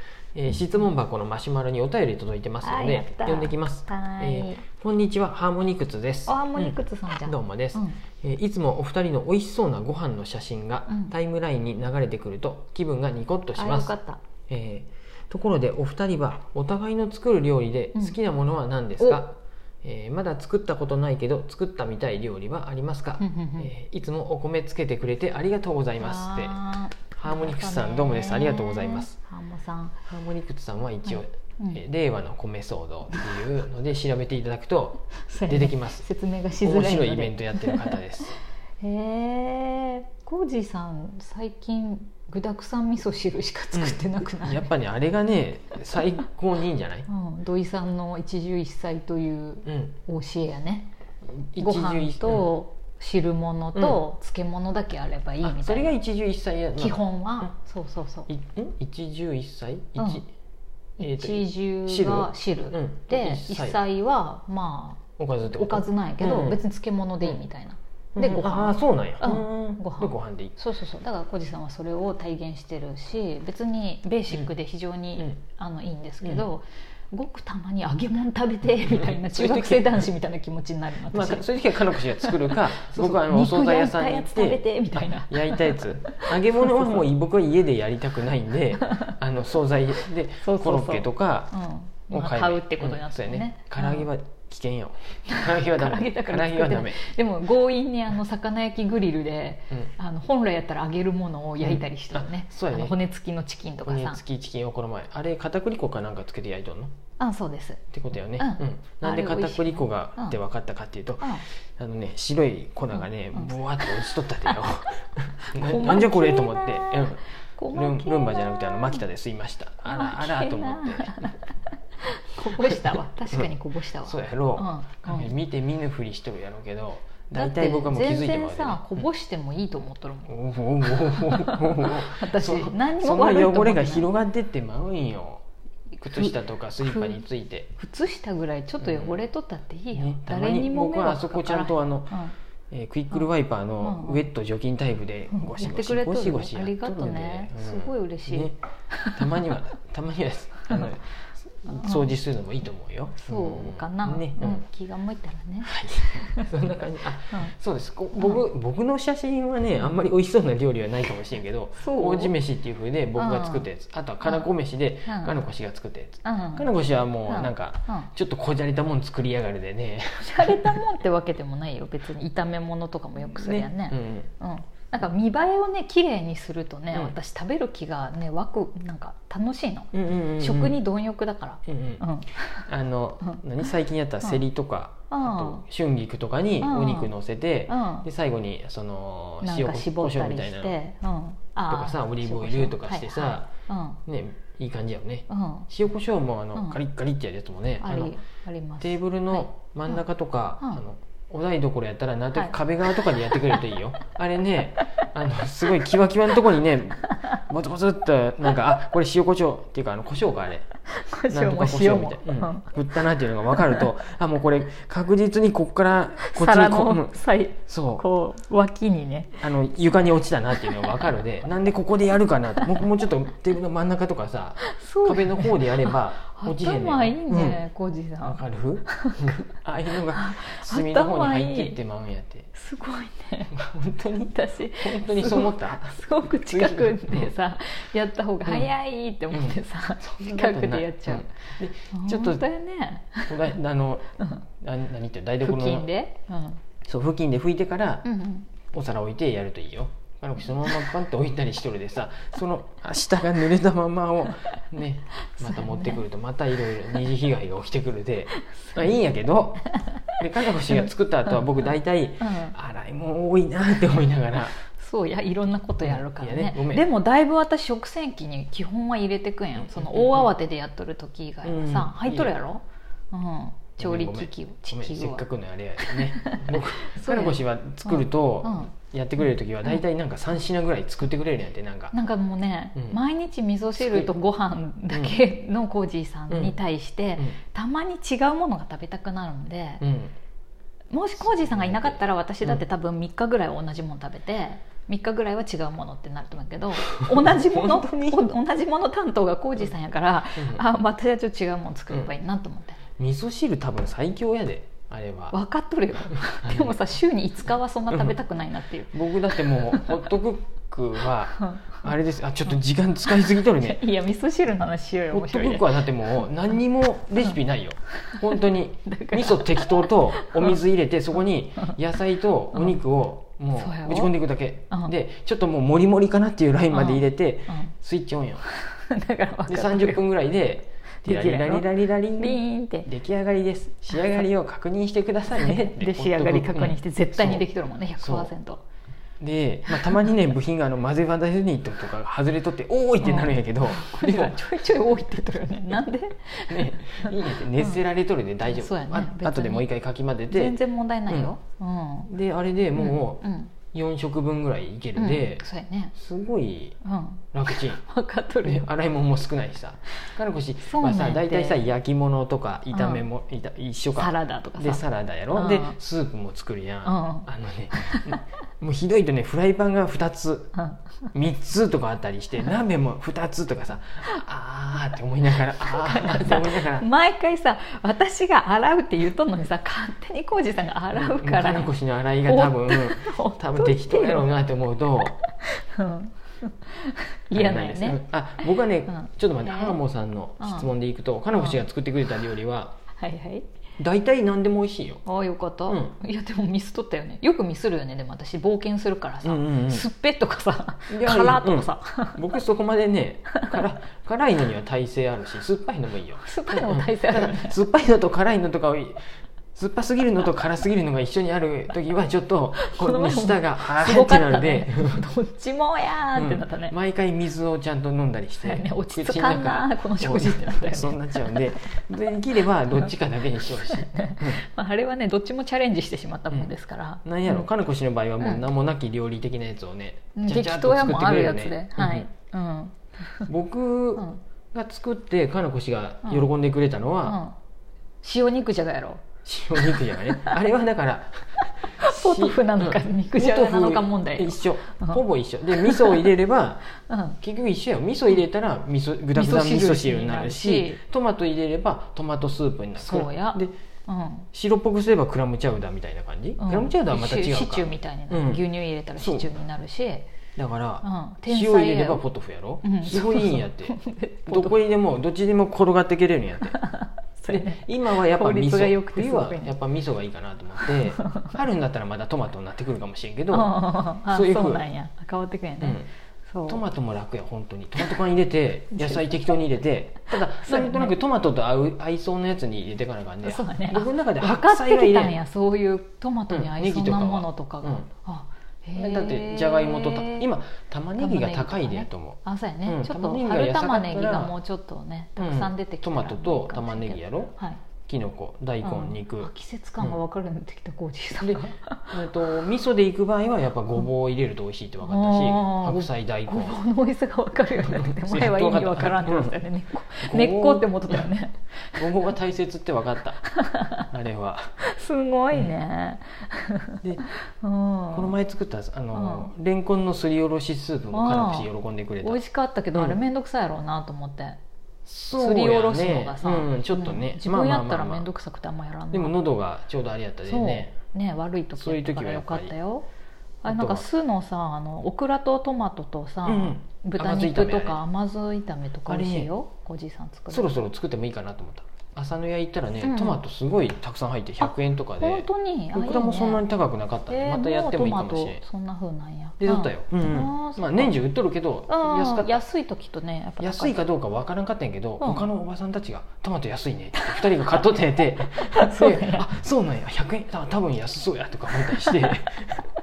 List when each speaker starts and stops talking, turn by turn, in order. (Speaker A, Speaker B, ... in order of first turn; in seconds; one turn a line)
Speaker A: 0.3-13.9
Speaker B: 2.6-4.7
Speaker B: 6.3-8.0
Speaker B: 10.9-11.1
Speaker B: 13.6-14.2
Speaker A: 14.5-26.6
Speaker B: 23.2-23.7
Speaker B: 26.0-30.0
Speaker A: 27.1-29.1
Speaker A: 30.1-36.0
Speaker B: 31.1-31.8
Speaker B: 35.2-38.0
Speaker A: 36.6-38.3
Speaker B: 38.8-44.7
Speaker A: 43.7-47.1
Speaker B: 47.1-50.9
Speaker A: 49.7-49.9
Speaker A: 51.4-52.5
Speaker B: 51.6-56.0
Speaker A: 53.8-54.0
Speaker A: 55.4-57.5
Speaker B: 56.8-58.3
Speaker A: 58.3-60.3
Speaker B: 60.0-60.2
Speaker B: 61.0-87.0
Speaker A: 61.0-63.8
Speaker A: 65.2-66.6
Speaker A: 68.2-70.5
Speaker A: 76.2-76.5
Speaker A: 79.0-80.1
Speaker A: 81.1-91.5
Speaker B: 88.7-89.1
Speaker B: 90.4-94.1
Speaker A: 92.1-97.0
Speaker B: 95.3-104.2
Speaker A: 101.6-103.0
Speaker A: 103.9-106.9
Speaker B: 107.2-107.8
Speaker A: 107.9-121.3
Speaker B: 108.4-110.4
Speaker B: 111.2-111.5
Speaker B: 113.3-114.7
Speaker B: 115.5-119.0
Speaker B: 119.9-125.3
Speaker A: 124.0-129.1
Speaker B: 127.3-134.1
Speaker A: 130.3-135.4
Speaker A: 136.0-137.7
Speaker B: 136.1-137.2
Speaker B: 137.8-142.3
Speaker A: 138.8-139.2
Speaker A: 139.9-142.2
Speaker A: 142.7-148.5
Speaker B: 143.8-144.2
Speaker B: 145.3-149.5
Speaker A: 149.2-154.6
Speaker B: 151.7-152.1
Speaker B: 153.2-156.5
Speaker A: 155.7-170.8
Speaker B: 158.2-158.4
Speaker B: 161.8-162.3
Speaker B: 163.2-163.7
Speaker B: 165.1-165.4
Speaker B: 166.2-166.7
Speaker B: 167.3-168.1
Speaker B: 170.2-182.7
Speaker A: 173.4-174.3
Speaker A: 179.9-180.8
Speaker A: 181.7-182.0
Speaker A: 182.7-190.8
Speaker B: 185.1-185.7
Speaker B: 186.6-187.1
Speaker B: 187.7-188.1
Speaker B: 189.4-194.0
Speaker A: 191.7-193.5
Speaker A: 194.1-198.1
Speaker B: 195.3-195.7
Speaker B: 197.8-200.0
Speaker A: 198.8-210.7
Speaker B: 202.3-203.7
Speaker B: 210.9-212.7
Speaker A: 211.3-218.0
Speaker B: 213.5-213.9
Speaker B: 216.2-219.4
Speaker A: 219.4-227.6
Speaker B: 220.6-221.1
Speaker B: 224.7-229.4
Speaker A: 228.2-232.5
Speaker B: 230.2-231.8
Speaker B: 232.6-233.5
Speaker A: 233.5-237.3
Speaker B: 234.2-241.3
Speaker A: 239.3-242.4
Speaker B: 241.9-243.5
Speaker A: 243.3-245.9
Speaker B: 245.4-246.6
Speaker A: 246.9-248.1
Speaker B: 248.1-248.5
Speaker A: 248.7-264.6
Speaker B: 255.3-256.1
Speaker B: 258.6-258.8
Speaker B: 259.7-260.0
Speaker B: 262.2-262.6
Speaker B: 264.7-275.2
Speaker A: 265.8-266.9
Speaker A: 269.7-270.3
Speaker A: 271.4-272.4
Speaker A: 273.8-281.9
Speaker B: 275.8-278.7
Speaker B: 281.9-289.8
Speaker A: 283.8-284.1
Speaker A: 284.9-285.2
Speaker A: 286.3-286.6
Speaker A: 289.8-290.1
Speaker B: 290.9-302.8
Speaker A: 291.2-292.6
Speaker A: 297.0-298.3
Speaker A: 300.4-300.6
Speaker A: 303.0-305.4
Speaker B: 305.3-310.1
Speaker A: 306.5-306.7
Speaker A: 308.9-313.8
Speaker B: 311.4-311.9
Speaker B: 313.1-316.2
Speaker A: 315.1-328.4
Speaker B: 318.0-320.6
Speaker B: 323.6-324.1
Speaker B: 326.7-327.7
Speaker B: 328.4-330.0
Speaker A: 329.5-337.4
Speaker B: 331.0-332.9
Speaker B: 333.9-334.2
Speaker B: 335.3-338.6
Speaker A: 338.0-338.3
Speaker A: 339.2-344.4
Speaker B: 339.7-340.1
Speaker B: 343.0-347.8
Speaker A: 346.5-350.6
Speaker B: 348.4-349.7
Speaker B: 350.3-352.1
Speaker A: 351.1-351.3
Speaker A: 352.1-355.4
Speaker B: 352.8-353.5
Speaker B: 355.0-355.9
Speaker A: 355.9-356.8
Speaker B: 356.8-358.7
Speaker A: 357.3-357.8
Speaker A: 358.4-370.6
Speaker B: 360.6-361.7
Speaker B: 362.7-363.1
Speaker B: 364.0-365.8
Speaker B: 366.9-368.2
Speaker A: 371.1-376.9
Speaker B: 375.6-381.7
Speaker A: 380.9-385.2
Speaker B: 382.3-384.3
Speaker B: 385.0-389.8
Speaker A: 387.3-392.8
Speaker B: 390.4-390.7
Speaker B: 391.3-391.6
Speaker B: 393.0-393.5
Speaker A: 393.8-395.0
Speaker B: 395.1-402.2
Speaker A: 395.7-395.9
Speaker A: 399.2-399.9
Speaker A: 400.9-415.0
Speaker B: 403.4-403.6
Speaker B: 406.2-407.6
Speaker B: 412.6-416.8
Speaker A: 416.1-424.4
Speaker B: 418.4-421.5
Speaker B: 423.7-427.5
Speaker A: 427.0-432.1
Speaker B: 428.2-428.5
Speaker B: 430.1-433.3
Speaker A: 433.3-437.2
Speaker B: 437.0-437.4
Speaker B: 438.0-439.0
Speaker A: 439.2-446.7
Speaker B: 439.6-440.4
Speaker B: 441.4-446.1
Speaker B: 446.8-447.2
Speaker A: 447.2-453.5
Speaker B: 449.1-450.8
Speaker B: 452.8-454.3
Speaker A: 454.3-458.4
Speaker B: 456.4-460.1
Speaker A: 459.0-459.3
Speaker A: 460.4-463.8
Speaker B: 460.8-462.1
Speaker B: 462.6-464.6
Speaker A: 464.3-466.6
Speaker B: 466.5-469.5
Speaker A: 467.3-474.6
Speaker B: 470.6-471.3
Speaker B: 473.3-476.6
Speaker A: 475.6-475.9
Speaker A: 476.5-485.2
Speaker B: 478.8-479.1
Speaker B: 480.3-481.0
Speaker B: 483.2-490.3
Speaker A: 486.3-487.9
Speaker A: 488.8-494.4
Speaker B: 491.0-497.6
Speaker A: 495.2-497.3
Speaker A: 497.9-500.0
Speaker B: 498.6-502.0
Speaker A: 501.2-506.6
Speaker B: 504.8-512.0
Speaker A: 507.6-509.4
Speaker A: 510.0-511.1
Speaker A: 511.8-513.3
Speaker B: 513.2-513.9
Speaker A: 513.9-514.5
Speaker B: 514.6-518.2
Speaker A: 517.9-522.2
Speaker B: 518.9-519.3
Speaker B: 520.9-521.5
Speaker B: 522.0-524.4
Speaker A: 522.7-523.0
Speaker A: 524.9-528.1
Speaker B: 525.1-529.2
Speaker A: 528.9-530.8
Speaker B: 530.2-532.9
Speaker A: 531.6-532.5
Speaker B: 533.4-540.5
Speaker A: 533.5-533.9
Speaker A: 536.2-537.8
Speaker A: 538.9-539.3
Speaker A: 540.3-548.4
Speaker B: 542.8-543.2
Speaker B: 544.4-546.4
Speaker B: 547.1-551.0
Speaker A: 549.4-552.4
Speaker B: 551.7-553.8
Speaker A: 553.4-562.6
Speaker B: 555.0-555.3
Speaker B: 556.9-559.3
Speaker B: 561.6-562.2